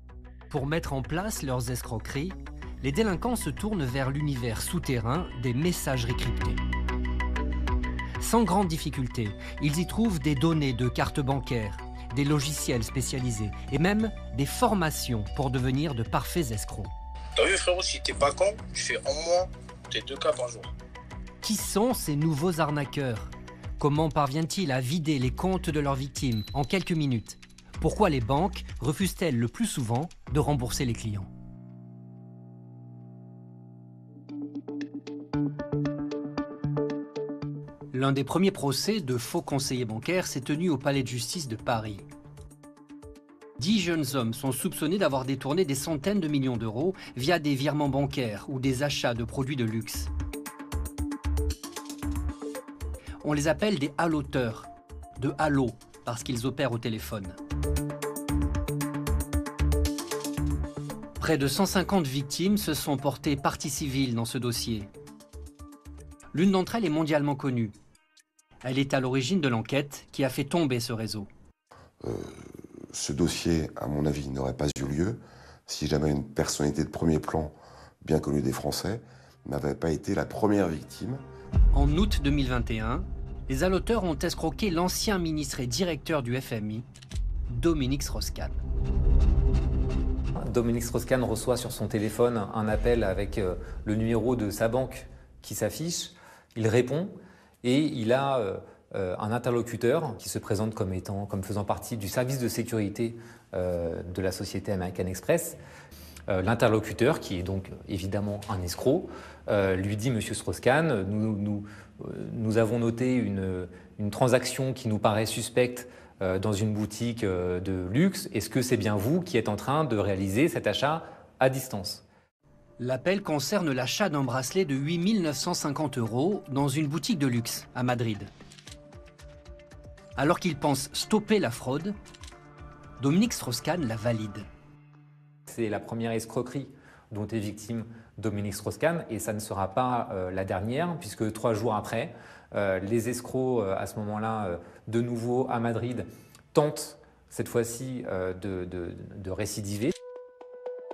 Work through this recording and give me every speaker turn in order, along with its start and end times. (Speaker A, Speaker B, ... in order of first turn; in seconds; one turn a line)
Speaker A: 0.5-6.6
Speaker A: 8.2-16.9
Speaker B: 17.4-20.7
Speaker A: 21.4-31.3
Speaker A: 37.9-42.1
Speaker A: 43.6-50.1
Speaker A: 53.2-57.4
Speaker A: 61.2-64.9
Speaker A: 66.3-67.7
Speaker A: 68.6-71.3
Speaker C: 72.0-81.2
Speaker A: 81.7-86.9
Speaker A: 87.5-88.6
Speaker D: 90.4-105.6
Speaker D: 106.3-122.0
Speaker A: 122.8-128.3
Speaker A: 130.2-131.9
Speaker A: 133.0-134.5
Speaker D: 135.5-149.9